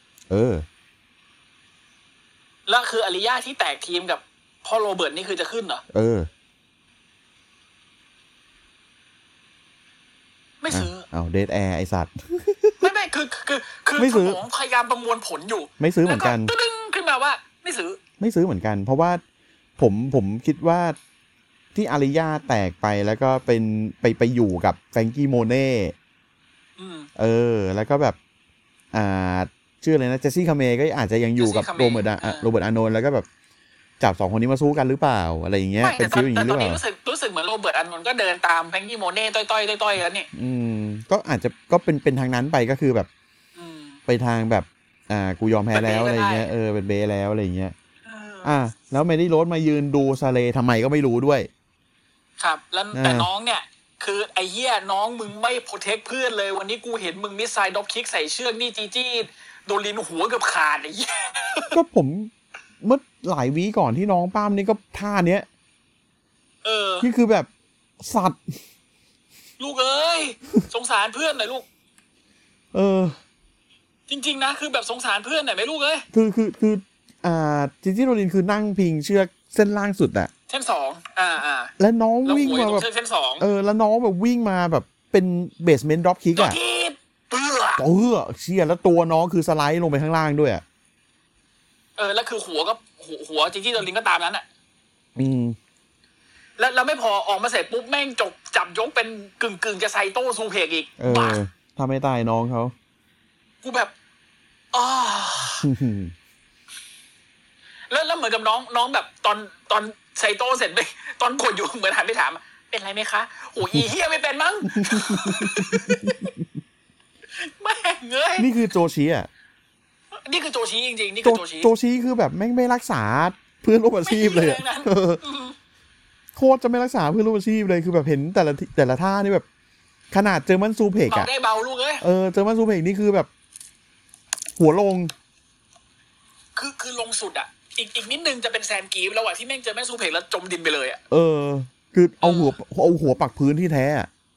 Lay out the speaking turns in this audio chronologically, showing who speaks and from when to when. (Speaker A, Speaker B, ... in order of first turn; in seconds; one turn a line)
Speaker A: 0.3-0.6
Speaker B: 2.7-5.8
Speaker A: 5.9-6.3
Speaker B: 10.6-11.1
Speaker A: 10.7-12.9
Speaker B: 12.8-18.0
Speaker A: 14.0-14.4
Speaker A: 15.8-16.5
Speaker A: 18.2-19.2
Speaker A: 19.8-21.0
Speaker A: 21.7-25.9
Speaker B: 26.8-27.1
Speaker A: 27.1-28.2
Speaker A: 28.9-33.2
Speaker B: 31.4-32.5
Speaker A: 34.0-36.8
Speaker B: 35.8-40.3
Speaker A: 40.3-43.1
Speaker B: 43.5-44.0
Speaker A: 44.1-47.7
Speaker B: 45.7-46.5
Speaker B: 48.0-48.5
Speaker A: 48.4-51.5
Speaker B: 52.4-61.8
Speaker A: 52.9-53.3
Speaker A: 61.7-65.5
Speaker B: 66.6-67.1
Speaker A: 67.0-67.5
Speaker A: 68.0-68.6
Speaker B: 69.6-71.7
Speaker A: 72.7-73.2
Speaker B: 74.1-76.0
Speaker A: 76.1-80.3
Speaker B: 80.5-81.7
Speaker A: 81.8-82.9
Speaker B: 82.2-83.4
Speaker A: 83.4-86.6
Speaker B: 86.3-87.8
Speaker A: 87.8-90.6
Speaker B: 92.0-94.5
Speaker A: 95.2-95.5
Speaker B: 96.6-101.4
Speaker A: 101.0-102.7
Speaker B: 103.6-103.9
Speaker B: 104.7-105.7
Speaker A: 105.6-106.1
Speaker B: 107.9-116.3
Speaker A: 114.7-116.3
Speaker B: 117.3-118.5
Speaker A: 118.4-119.3
Speaker B: 120.2-121.7
Speaker A: 121.2-125.2
Speaker B: 124.0-125.5
Speaker A: 126.3-129.4
Speaker A: 130.1-131.3
Speaker B: 131.1-132.0
Speaker A: 132.0-133.3
Speaker A: 134.6-135.1
Speaker B: 136.6-141.0
Speaker A: 141.1-144.1
Speaker B: 142.2-142.5